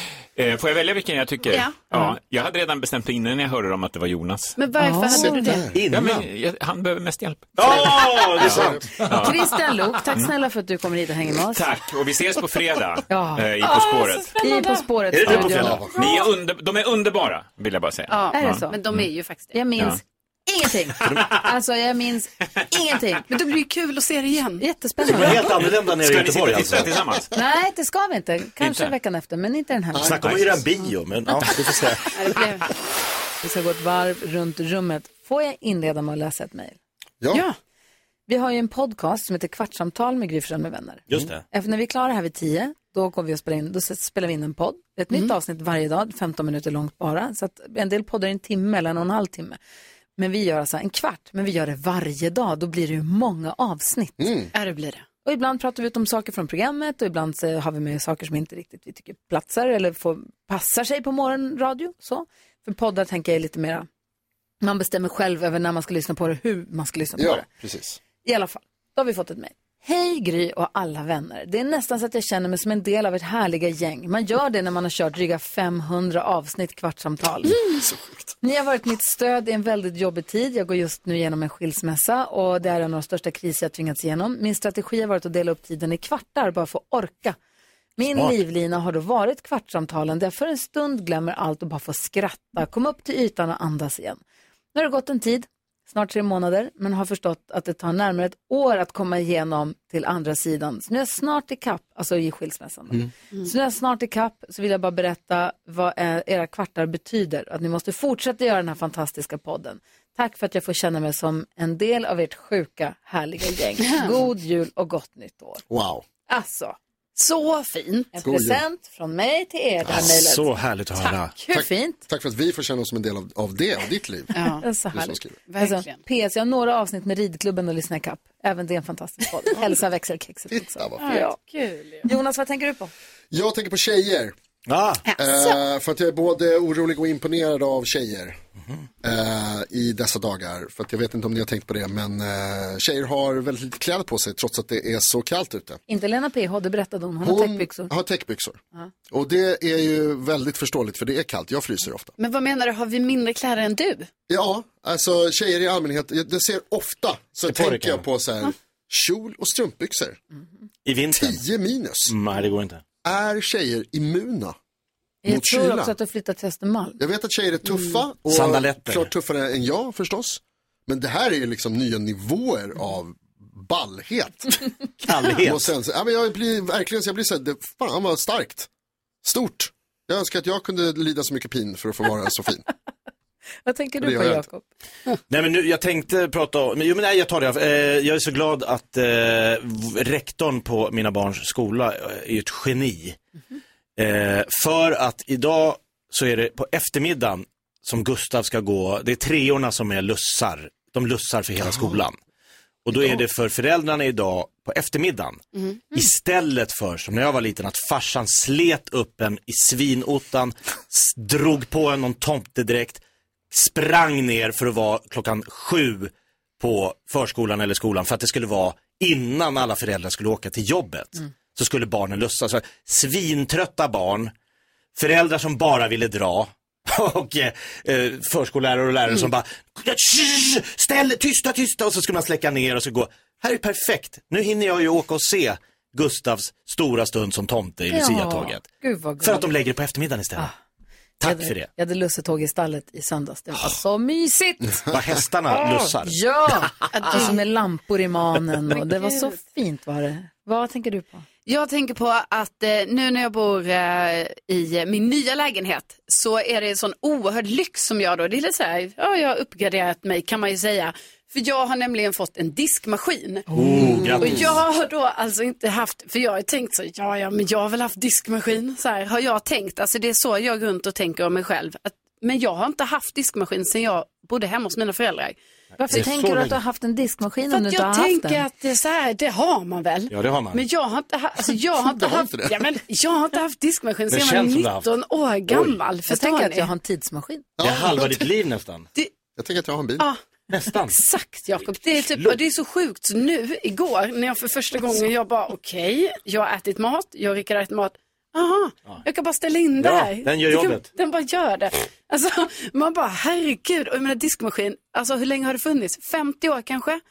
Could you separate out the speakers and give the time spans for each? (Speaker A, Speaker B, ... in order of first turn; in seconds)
Speaker A: 0.3-4.6, 5.9-10.3, 11.3-14.4, 15.9-19.1, 19.7-20.0, 25.4-27.3, 28.6-28.9
Speaker B: 1.5-1.8, 4.6-5.7, 13.7-14.8, 18.1-19.6, 23.3-24.6, 32.1-32.7, 37.3-37.6, 54.5-55.0, 113.8-114.1, 117.2-118.1, 121.0-121.5, 124.3-124.7, 125.5-126.0, 131.0-132.1, 135.1-135.6, 152.2-154.1, 167.7-168.0, 246.9-247.4, 248.9-249.3, 251.4-275.4, 277.5-286.7, 290.9-307.0
Speaker C: 4.8-5.6, 9.1-11.7, 13.1-16.1, 18.3-18.8, 19.5-23.3, 24.6-25.5, 27.3-30.6, 33.4-36.8, 38.3-49.6, 50.2-54.5, 55.2-63.9, 64.6-67.5, 68.2-77.5, 78.4-87.4, 88.0-94.2, 94.7-115.6, 116.3-116.8, 118.1-120.5, 121.5-122.0, 124.6-131.3, 132.0-132.9, 145.9-147.9, 165.2-167.0, 183.6-184.6, 237.9-239.5, 241.2-244.9, 245.5-251.2, 263.5-263.9, 275.8-278.4, 286.1-287.4
Speaker D: 5.1-5.9, 8.4-8.9, 15.4-16.0, 30.0-30.2, 37.2-37.5, 54.2-54.5, 67.2-68.0, 77.5-78.3, 115.7-116.0, 118.2-118.6, 121.5-124.3, 124.9-125.3, 130.5-131.1, 133.3-134.3, 135.2-138.4, 139.0-145.8, 147.2-152.1, 154.3-160.2, 161.1-162.2, 163.0-164.6, 165.2-165.9, 167.0-174.7, 175.3-178.7, 179.2-182.6, 184.0-184.4, 281.8-282.6, 287.6-288.2, 289.4-290.1
Speaker E: 5.7-6.2, 7.5-8.8, 15.1-16.0, 21.0-21.4, 25.0-27.0, 30.0-32.1, 41.1-41.4, 119.8-121.3, 134.7-135.0, 157.5-158.0, 160.8-161.4, 162.1-162.8, 168.3-169.1, 175.0-175.7, 185.3-193.2, 194.0-202.2, 202.8-224.3, 224.9-238.7, 239.2-240.5, 241.2-241.7, 244.9-246.2, 263.5-264.6, 275.9-276.6, 280.1-280.6, 284.1-284.9, 285.5-285.8, 287.6-288.9, 290.5-290.9, 299.8-300.9